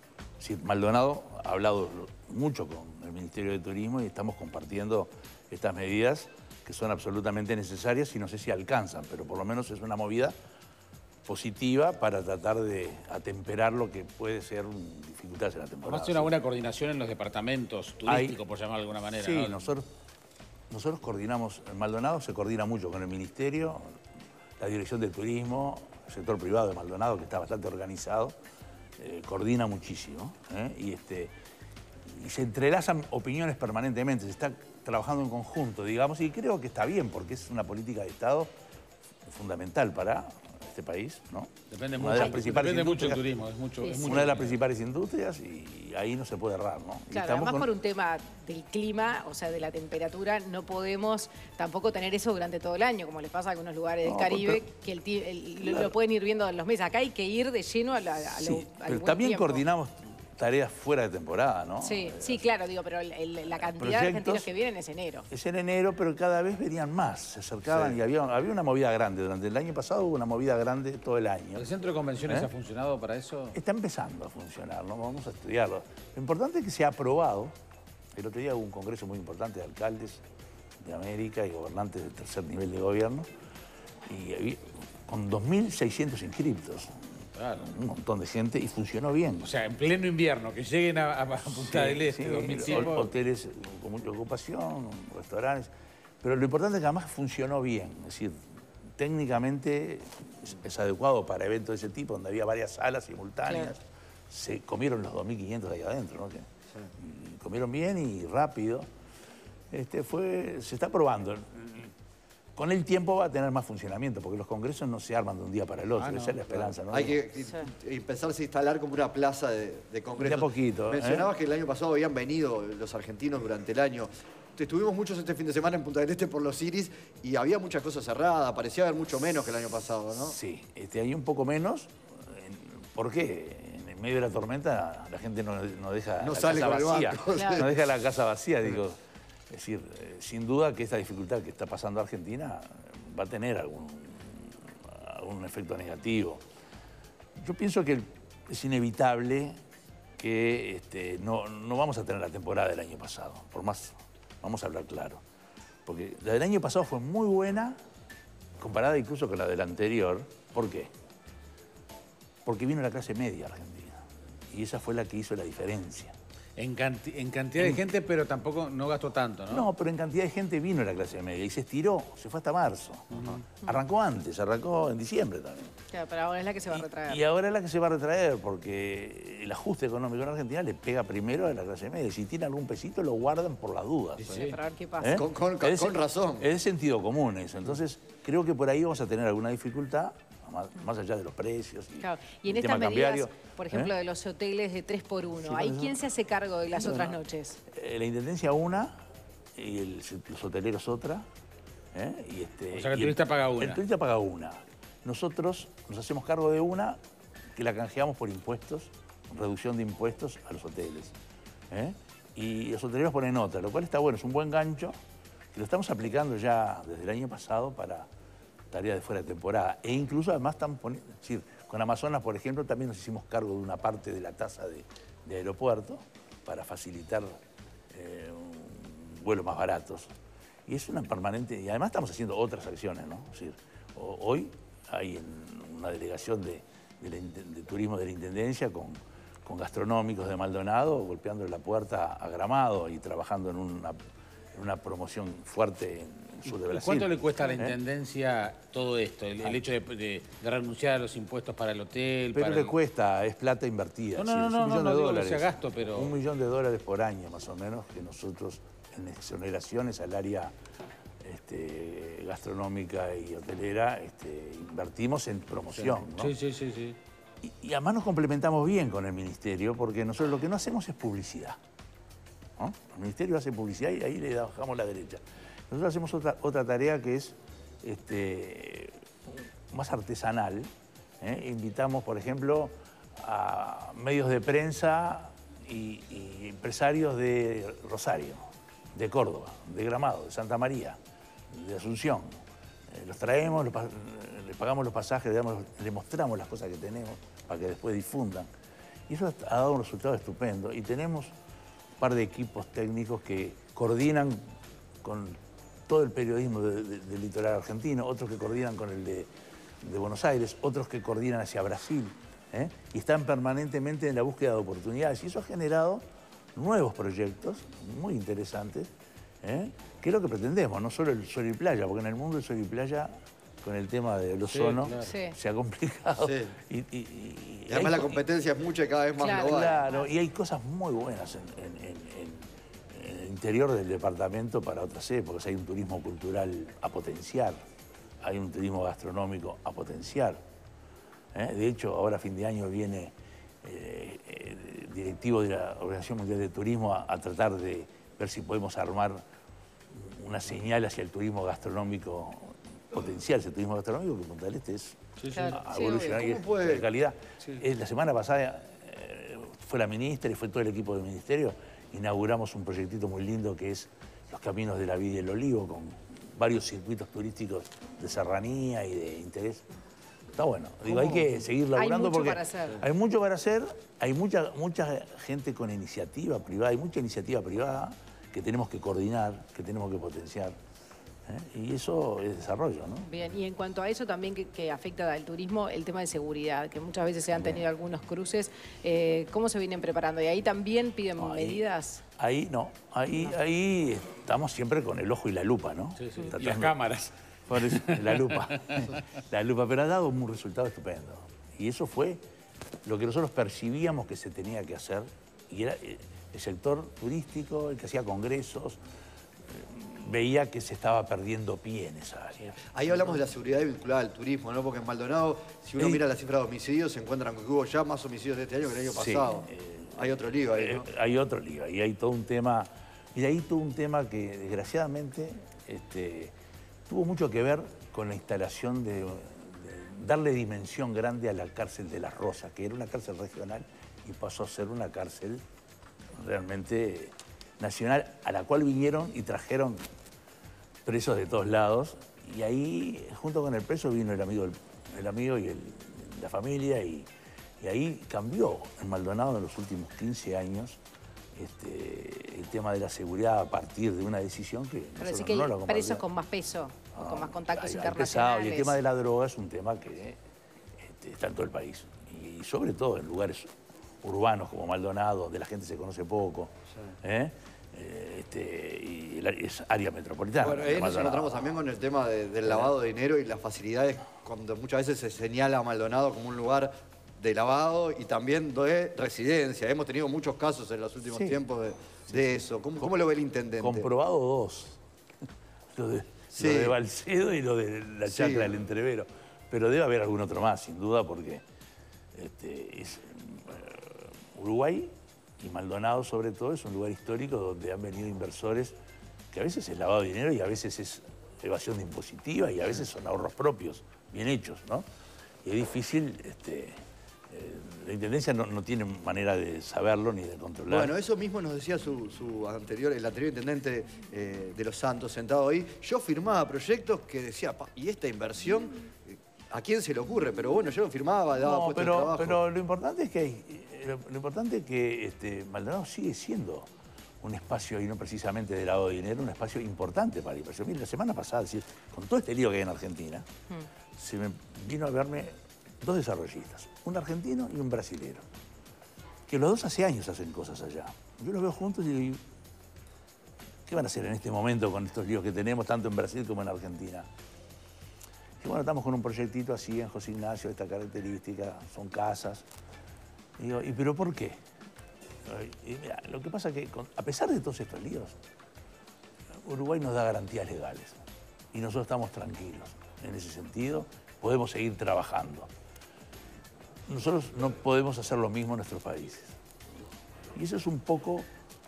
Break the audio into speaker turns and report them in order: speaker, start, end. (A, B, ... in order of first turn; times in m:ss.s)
0:00.4-0:10.3 A
0:11.2-0:16.3 A
0:15.8-0:19.6 B
0:18.0-0:18.4 A
0:19.1-0:19.9 A
0:20.7-0:24.0 A
0:24.6-0:28.3 A
0:29.0-0:31.3 A
0:32.1-0:38.5 A
0:39.2-0:43.2 A
0:41.7-0:44.6 B
0:43.8-0:44.2 C
0:44.0-0:47.7 A
0:47.1-0:59.6 C
0:54.0-0:54.6 A
0:55.6-0:55.9 A
0:58.2-1:02.5 A
1:01.8-1:05.3 C
1:03.5-1:04.5 A
1:05.3-1:11.7 A
1:11.6-1:13.6 B
1:13.5-1:17.5 A
1:18.1-1:20.2 A
1:20.8-1:23.3 A
1:24.0-1:27.0 A
1:27.3-1:27.7 B
1:27.6-1:29.5 A
1:29.4-1:33.1 B
1:31.5-1:35.7 A
1:36.2-1:38.4 A
1:39.0-1:48.9 A
1:43.4-1:43.7 C
1:49.7-1:51.9 A
1:52.6-1:57.2 A
1:56.0-1:56.4 B
1:56.5-2:10.4 D
2:00.2-2:01.3 A
2:10.2-2:26.4 A
2:16.2-2:17.8 D
2:17.3-2:17.7 C
2:27.4-2:29.6 A
2:30.2-2:35.2 A
2:35.8-2:37.8 A
2:38.6-2:40.9 A
2:42.4-2:46.1 A
2:46.6-2:49.7 B
2:49.5-2:55.7 A
2:53.1-2:53.4 B
2:55.9-2:57.2 C
2:56.7-3:04.4 A
3:04.2-3:04.6 B
3:04.3-3:05.2 C
3:05.0-3:13.9 A
3:05.1-3:06.5 D
3:12.0-3:17.6 C
3:15.4-3:16.0 A
3:16.7-3:17.2 A
3:17.7-3:19.0 A
3:19.6-3:21.2 A
3:21.9-3:27.0 A
3:22.7-3:23.8 B
3:27.5-3:31.1 A
3:31.7-3:35.0 A
3:35.5-3:38.1 A
3:38.7-3:47.4 A
3:47.9-3:50.1 A
3:50.7-4:04.0 A
4:04.5-4:07.8 A
4:06.5-4:12.8 B
4:12.3-4:20.5 A
4:14.2-4:16.1 B
4:21.2-4:26.4 A
4:25.8-4:27.0 B
4:27.4-4:31.6 A
4:32.6-4:40.7 A
4:41.2-4:51.0 A
4:51.5-4:52.3 A
4:52.9-4:58.5 A
4:59.1-5:01.3 A
5:02.0-5:04.4 A
5:05.0-5:05.4 A
5:05.9-5:09.3 A
5:09.8-5:16.0 A
5:16.5-5:18.9 A
5:19.4-5:28.2 A
5:24.5-5:25.1 B
5:25.0-5:25.4 C
5:26.2-5:26.5 D
5:27.7-5:29.8 D
5:29.2-5:30.1 C
5:29.2-5:37.6 A
5:38.2-5:40.4 A
5:41.3-5:49.2 A
5:49.9-6:09.6 A
5:55.2-5:55.5 B
5:55.3-5:56.3 C
5:55.9-5:56.8 D
6:10.3-6:20.6 A
6:10.9-6:12.8 C
6:21.2-6:23.1 A
6:23.0-6:32.0 C
6:27.4-6:27.6 A
6:31.2-6:31.6 A
6:32.2-6:36.8 A
6:36.0-6:39.0 B
6:37.5-6:42.2 A
6:42.8-6:48.8 A
6:49.5-6:52.6 A
6:52.7-7:00.8 D
6:58.9-7:06.3 A
7:06.9-7:15.4 A
7:16.1-7:19.8 A
7:20.8-7:27.1 A
7:27.6-7:30.8 A
7:31.3-7:36.0 A
7:35.0-7:38.8 C
7:36.9-7:40.2 A
7:40.8-7:43.5 A
7:44.0-7:51.6 A
7:50.4-8:03.9 D
7:52.4-7:52.7 A
8:01.1-8:01.4 A
8:02.1-8:02.9 A
8:03.6-8:04.8 A
8:05.7-8:11.4 A
8:06.3-8:06.8 D
8:08.0-8:08.5 D
8:12.1-8:18.7 A
8:19.3-8:24.8 A
8:25.4-8:26.8 A
8:27.3-8:30.9 A
8:30.7-8:42.4 D
8:41.4-8:46.7 A
8:47.2-8:53.2 A
8:54.0-8:58.2 A
8:59.3-9:02.2 A
9:03.7-9:07.1 A
9:08.4-9:12.5 A
9:13.4-9:14.4 A
9:15.2-9:18.2 A
9:19.4-9:21.0 A
9:21.5-9:25.5 A
9:26.9-9:29.3 A
9:30.3-9:31.3 A